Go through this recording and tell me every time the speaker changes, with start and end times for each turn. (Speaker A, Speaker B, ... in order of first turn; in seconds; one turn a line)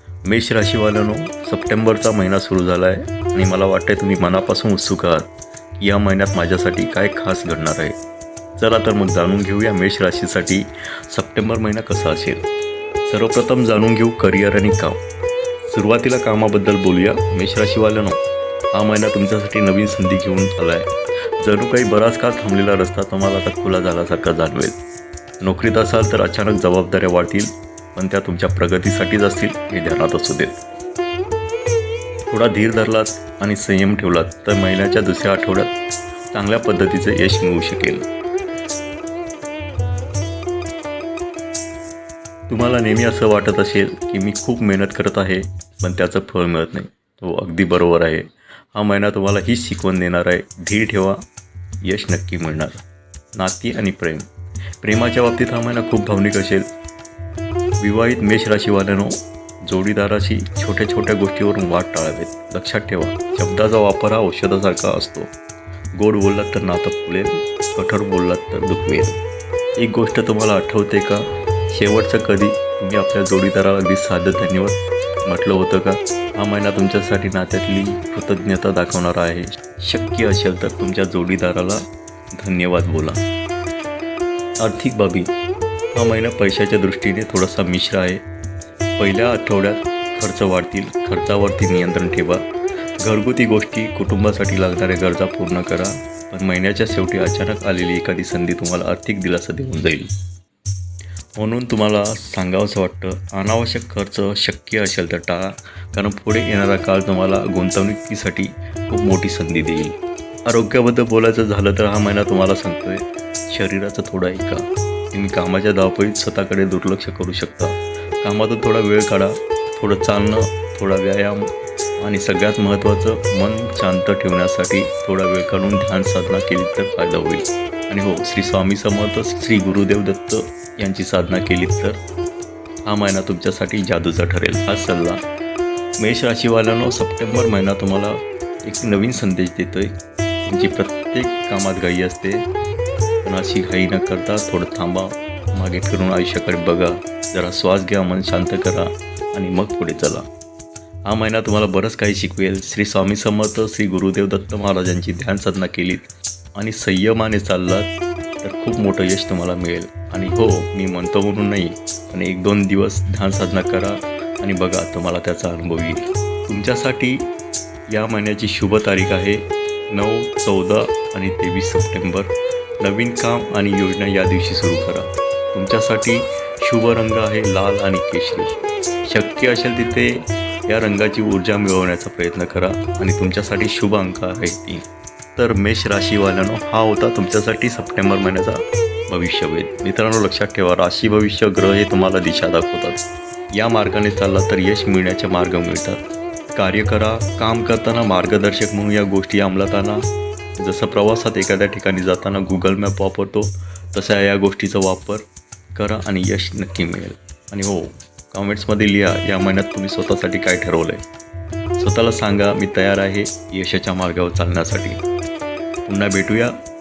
Speaker A: 0.3-5.3
Speaker A: 5.8-8.0
Speaker A: 8.6-12.4
Speaker A: 13.1-15.0
Speaker A: 15.7-18.2
Speaker A: 18.7-24.8
Speaker A: 25.4-30.6
Speaker A: 32.3-35.7
Speaker A: 36.3-38.0
Speaker A: 42.5-51.2
Speaker A: 51.8-52.8
Speaker A: 53.4-54.3
Speaker A: 54.8-56.7
Speaker A: 57.8-65.3
Speaker A: 66.0-69.2
Speaker A: 69.8-81.8
Speaker A: 82.4-83.2
Speaker A: 84.6-85.3
Speaker A: 85.9-88.2
Speaker A: 89.0-92.4
Speaker A: 93.0-100.1
Speaker A: 101.4-121.5
Speaker A: 122.0-132.0
Speaker A: 132.9-135.2
Speaker A: 136.0-139.9
Speaker A: 140.4-142.4
Speaker A: 143.2-150.2
Speaker A: 151.1-157.9
Speaker A: 158.4-167.3
Speaker A: 167.9-184.8
Speaker A: 185.4-193.0
Speaker A: 193.5-196.0
Speaker A: 196.6-200.0
Speaker A: 200.6-211.0
Speaker A: 211.8-215.0
Speaker A: 215.9-216.6